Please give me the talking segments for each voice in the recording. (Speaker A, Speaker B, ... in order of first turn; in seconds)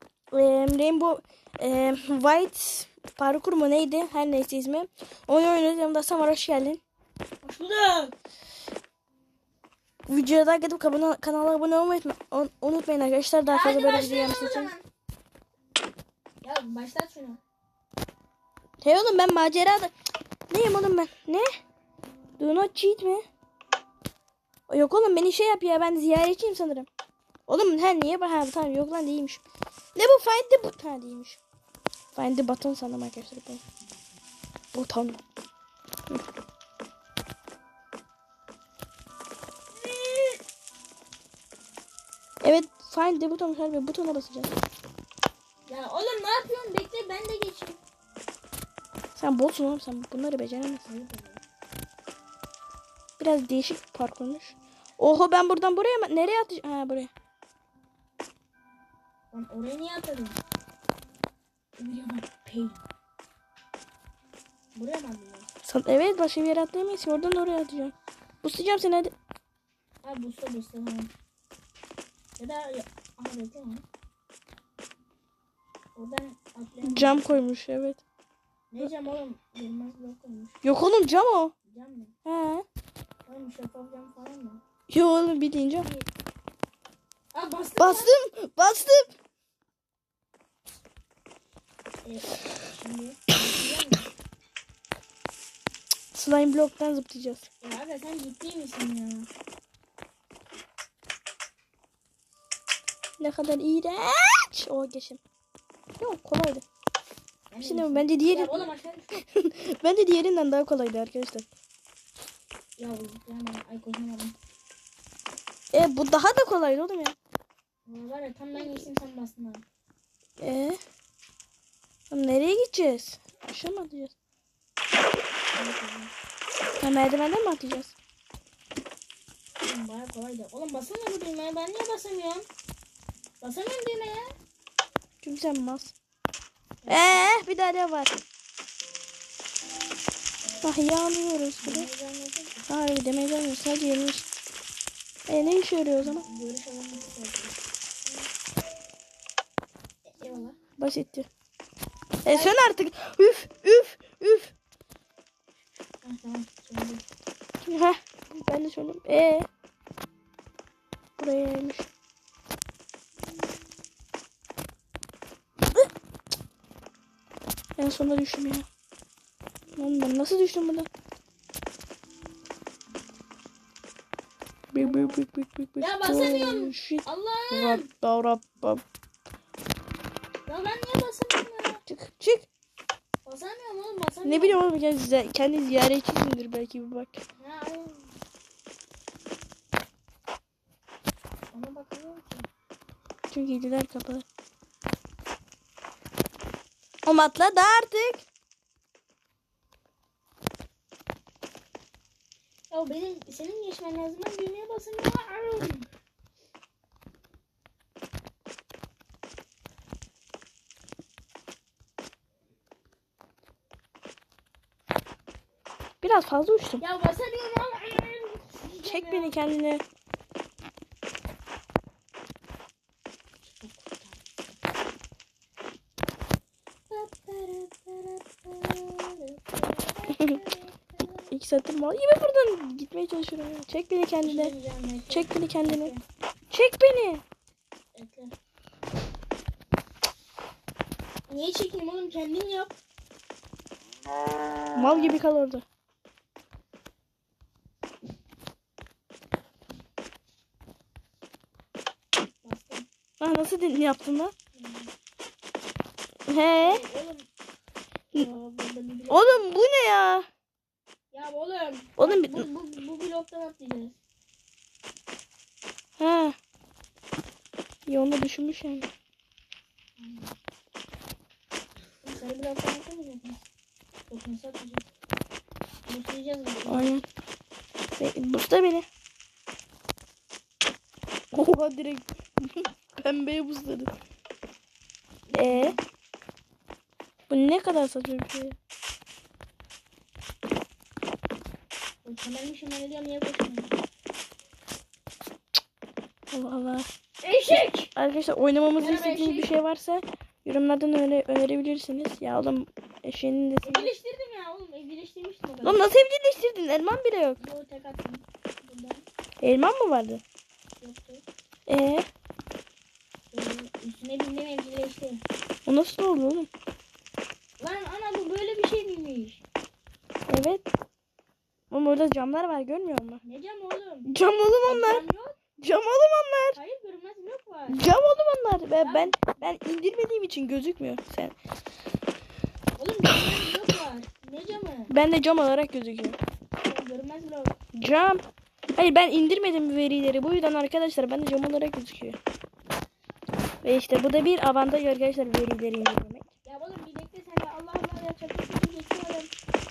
Speaker A: 0.3-6.8, 10.1-14.7, 18.8-19.9, 20.5-21.5, 22.4-23.2, 24.7-26.9, 27.5-29.4, 29.9-31.4, 32.1-33.6, 34.7-35.2, 42.4-44.5, 49.1-50.9, 53.2-57.1, 65.6-69.1, 76.8-78.0, 80.6-81.5, 82.2-82.6, 84.9-85.9, 87.8-89.1, 96.1-97.5, 103.2-105.2, 106.0-106.6, 107.6-111.5, 115.7-117.2, 120.4-120.8, 122.1-124.1, 126.8-127.9, 135.2-135.9, 136.9-138.1, 140.6-141.9, 142.7-144.3, 145.3-146.2, 150.8-151.3, 152.2-154.5, 157.6-159.5, 161.2-161.9, 167.8-168.7, 169.8-170.9, 174.7-178.8, 181.9-182.5, 184.2-187.2, 193.3-194.2, 197.0-198.2, 216.0-216.8, 218.8-219.8, 230.1-230.4, 231.3-234.5, 235.1-235.9, 236.5-237.2, 244.7-245.6, 253.2-254.3, 256.3-256.8, 259.1-260.3, 262.0-262.5, 266.0-266.3, 267.9-268.9, 276.7-277.0, 278.0-278.9, 281.3-283.9, 285.3-285.7, 287.3-288.6, 296.3-296.9, 297.9-303.9, 305.6-307.4, 309.4-310.2, 311.7-312.1, 315.6-316.5, 320.3-320.6, 321.7-323.2, 324.1-325.0, 325.6-326.6, 327.7-331.3, 334.9-336.2, 337.7-338.2, 338.8-342.2, 343.6-346.3
Speaker B: 7.4-8.1, 13.5-14.8, 16.4-17.4, 39.7-40.4, 45.7-47.8, 50.9-51.4, 59.3-60.4, 61.8-62.8, 64.7-65.5, 70.0-71.1, 72.4-73.8, 76.0-77.3, 78.7-80.6, 81.7-82.1, 83.3-84.6, 87.3-88.2, 92.0-94.1, 97.6-99.3, 107.5-109.2, 112.8-114.3, 117.8-119.6, 125.5-126.1, 129.6-132.4, 133.4-134.3, 136.8-137.3, 141.6-142.7, 146.0-147.6, 150.1-150.6, 152.2-152.6, 156.0-157.0, 174.8-175.2, 175.8-177.9, 180.4-181.8, 183.2-184.6, 187.4-188.2, 191.5-192.5, 202.7-205.8, 216.8-219.3, 223.4-224.3, 226.9-231.3, 234.2-236.0, 237.9-238.3, 241.3-242.8, 252.4-252.8, 254.5-254.9, 256.6-257.3, 258.1-259.5, 261.1-264.0, 270.0-270.3, 272.0-273.4, 274.1-274.8, 275.9-276.9, 285.3-285.8, 292.0-293.7, 297.2-297.9, 298.8-299.5, 303.6-305.9, 307.4-309.1, 310.8-311.2, 313.3-315.2, 317.6-319.4, 323.2-324.1, 324.6-325.4, 326.5-327.8, 328.8-329.4, 332.8-334.9, 336.6-337.6, 346.4-349.3